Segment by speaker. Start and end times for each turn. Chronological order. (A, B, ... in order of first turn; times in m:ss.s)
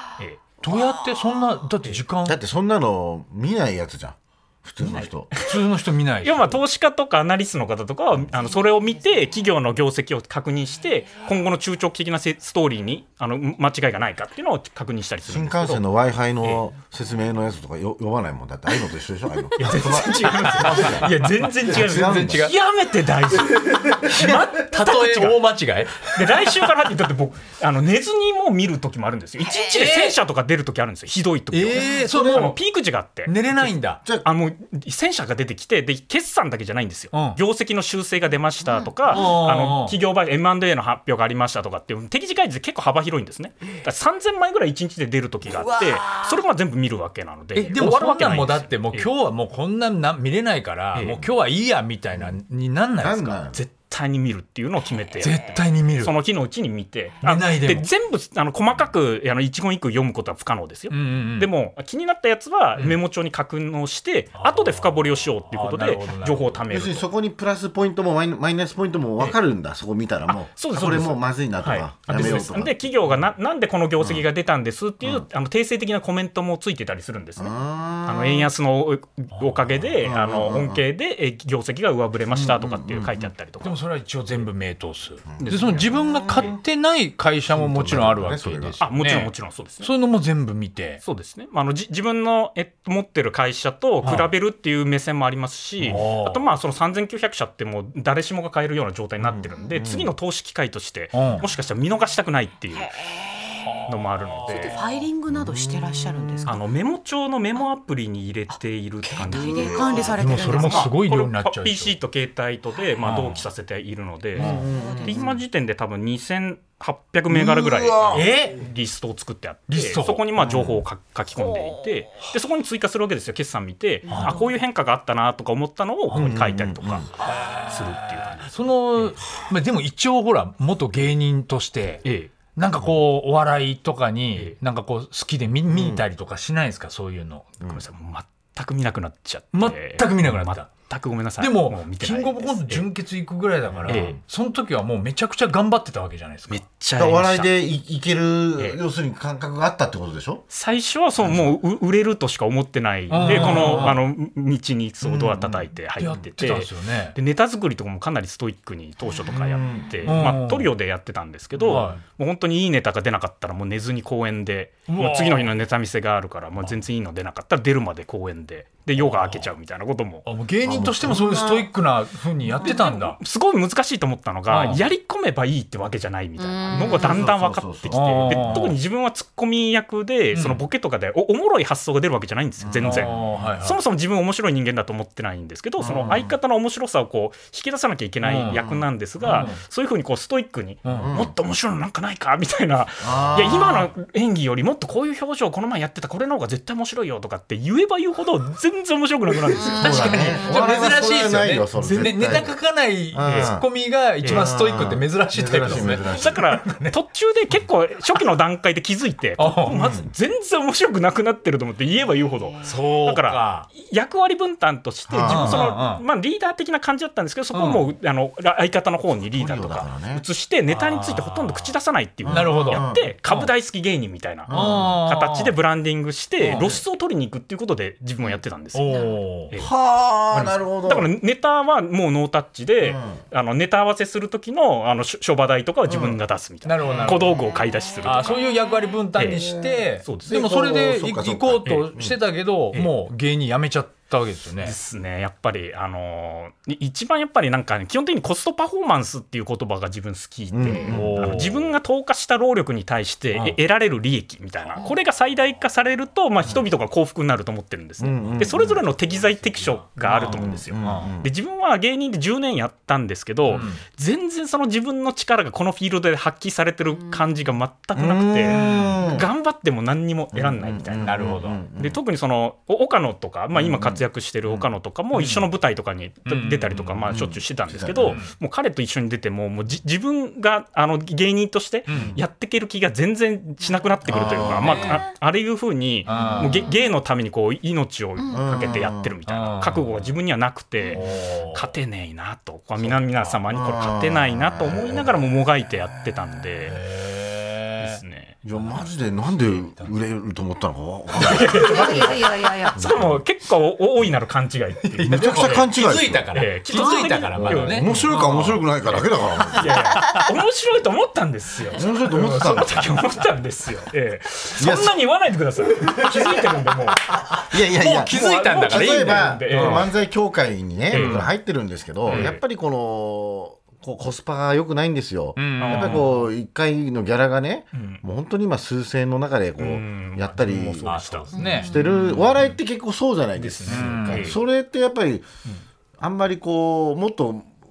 0:00.6-0:02.4 A
0:02.2-0:05.3 B
0:04.9-0:05.6 C
0:05.4-0:06.6 A
0:06.2-0:15.8 C
0:15.2-0:21.1 B
0:19.6-0:25.4 C
0:20.4-0:22.6 A
0:21.7-0:22.5 B
0:23.5-0:26.6 A
0:26.0-0:33.4 C
0:29.4-0:29.8 D
0:29.6-0:30.2 A
0:31.5-0:32.6 A
0:32.0-0:32.5 B
0:33.2-0:34.0 A
0:34.1-0:49.1 C
0:37.1-0:37.4 A
0:38.6-0:39.2 D
0:39.1-0:40.0 A
0:45.5-0:46.3 D
0:47.5-0:53.4 A
0:50.9-0:51.2 C
0:53.0-0:53.6 B
0:53.5-1:07.1 C
0:55.2-0:56.1 A
0:55.2-0:55.6 D
0:57.2-0:57.9 A
1:00.9-1:01.5 A
1:04.3-1:06.6 A
1:06.7-1:12.8 B
1:10.3-1:23.7 C
1:14.0-1:14.2 B
1:17.4-1:18.5 B
1:19.3-1:19.8 A
1:20.0-1:20.8 B
1:22.3-1:23.3 B
1:23.6-1:31.0 A
1:25.3-1:26.6 B
1:25.5-1:25.8 C
1:27.5-1:28.8 B
1:28.8-1:29.9 C
1:31.0-1:42.9 C
1:34.0-1:34.3 A
1:35.8-1:36.4 A
1:39.2-1:40.1 B
1:41.1-1:41.5 A
1:42.8-1:43.7 D
1:43.6-1:44.8 A
1:43.9-1:44.8 C
1:44.5-1:46.6 D
1:45.3-1:46.4 B
1:46.4-1:54.5 C
1:49.0-1:51.0 D
1:49.3-1:50.7 B
1:50.2-1:51.9 A
1:53.0-1:53.4 A
1:54.4-1:55.4 B
1:54.4-1:54.7 A
1:54.5-1:55.3 D
1:55.0-2:08.5 C
1:57.3-1:58.3 B
1:58.1-1:58.6 A
1:59.7-2:00.2 A
2:00.4-2:00.8 B
2:01.4-2:01.7 D
2:04.0-2:04.4 D
2:04.1-2:04.4 A
2:06.1-2:07.0 B
2:07.2-2:17.6 A
2:12.0-2:12.3 C
2:15.7-2:16.0 B
2:17.6-2:22.9 C
2:19.5-2:20.7 A
2:21.4-2:26.6 A
2:23.7-2:24.2 B
2:23.9-2:24.2 C
2:26.5-2:27.5 C
2:27.0-2:30.4 B
2:30.5-2:50.2 C
2:33.1-2:34.0 A
2:33.1-2:34.0 B
2:35.0-2:35.7 B
2:36.0-2:37.2 A
2:39.2-2:40.3 B
2:40.0-2:40.7 A
2:41.6-2:42.0 A
2:44.9-2:45.5 A
2:49.0-2:49.5 A
2:50.2-2:53.2 A
2:50.6-2:51.7 B
2:52.6-3:20.3 C
2:54.5-2:54.8 A
2:56.4-2:57.3 D
2:56.7-2:58.7 B
2:57.9-2:58.8 A
3:00.3-3:00.6 A
3:02.6-3:03.5 B
3:02.8-3:03.8 A
3:05.8-3:06.3 B
3:08.2-3:08.6 A
3:08.5-3:09.5 B
3:09.2-3:09.6 A
3:10.8-3:11.1 A
3:10.9-3:11.3 B
3:13.0-3:13.9 B
3:19.5-3:20.7 D
3:19.7-3:22.6 B
3:19.8-3:27.0 A
3:23.1-3:23.7 B
3:23.2-3:23.6 C
3:24.2-3:24.5 C
3:24.2-3:26.4 B
3:25.8-3:49.7 C
3:29.4-3:29.9 A
3:29.6-3:30.1 B
3:32.6-3:33.7 A
3:35.1-3:35.7 B
3:35.2-3:36.0 A
3:37.5-3:37.9 A
3:39.2-3:40.2 B
3:40.7-3:41.7 A
3:42.2-3:43.1 B
3:42.3-3:43.5 A
3:44.5-3:45.0 B
3:44.5-3:45.5 A
3:46.4-3:46.7 A
3:46.5-3:46.8 B
3:48.7-3:49.5 A
3:48.9-3:49.2 D
3:49.6-3:51.1 B
3:50.3-3:58.4 C
3:52.8-3:53.2 B
3:55.9-3:56.2 B
3:56.6-3:57.4 A
3:57.3-3:59.0 D
3:58.0-4:04.7 A
3:59.1-3:59.4 C
3:59.3-4:02.2 B
4:00.0-4:00.4 C
4:01.6-4:01.9 C
4:04.6-4:31.1 C
4:10.5-4:11.4 B
4:10.8-4:11.7 A
4:18.0-4:18.8 B
4:19.1-4:21.2 A
4:20.0-4:21.3 B
4:23.4-4:23.8 A
4:27.9-4:29.3 B
4:28.5-4:29.1 A
4:30.3-4:32.0 B
4:31.0-4:31.6 A
4:31.7-4:56.8 C
4:33.5-4:34.7 B
4:35.1-4:35.5 A
4:36.2-4:37.2 A
4:37.1-4:38.2 B
4:38.0-4:38.3 A
4:41.9-4:42.2 A
4:41.9-4:42.2 B
4:44.1-4:44.9 B
4:44.1-4:45.0 A
4:46.0-4:46.7 A
4:46.2-4:46.8 D
4:48.2-4:48.9 D
4:48.3-4:49.1 B
4:49.2-4:50.0 A
4:50.9-4:51.7 A
4:52.8-4:53.4 A
4:53.5-4:55.1 B
4:56.6-4:58.0 A
4:57.8-4:58.4 C
4:58.4-5:01.9 B
4:58.5-4:59.9 A
5:01.1-5:05.7 C
5:01.5-5:02.9 D
5:02.8-5:03.2 B
5:04.8-5:09.0 A
5:05.0-5:06.3 B
5:06.3-5:08.1 C
5:07.3-5:09.8 B
5:09.4-5:17.2 C
5:11.7-5:13.0 B
5:14.6-5:15.0 B
5:16.0-5:16.4 B
5:17.3-5:19.9 A
5:17.5-5:31.0 B
5:18.1-5:19.9 C
5:20.9-5:21.3 C
5:20.9-5:21.3 A
5:22.0-5:22.4 A
5:22.1-5:22.4 C
5:25.4-5:26.2 A
5:25.6-5:26.2 C
5:27.7-5:28.0 C
5:29.6-5:32.3 C
5:30.8-5:32.4 A
5:31.3-5:31.8 D
5:31.5-5:35.2 B
5:33.4-5:34.4 C
5:33.6-5:34.4 A
5:36.0-5:37.5 B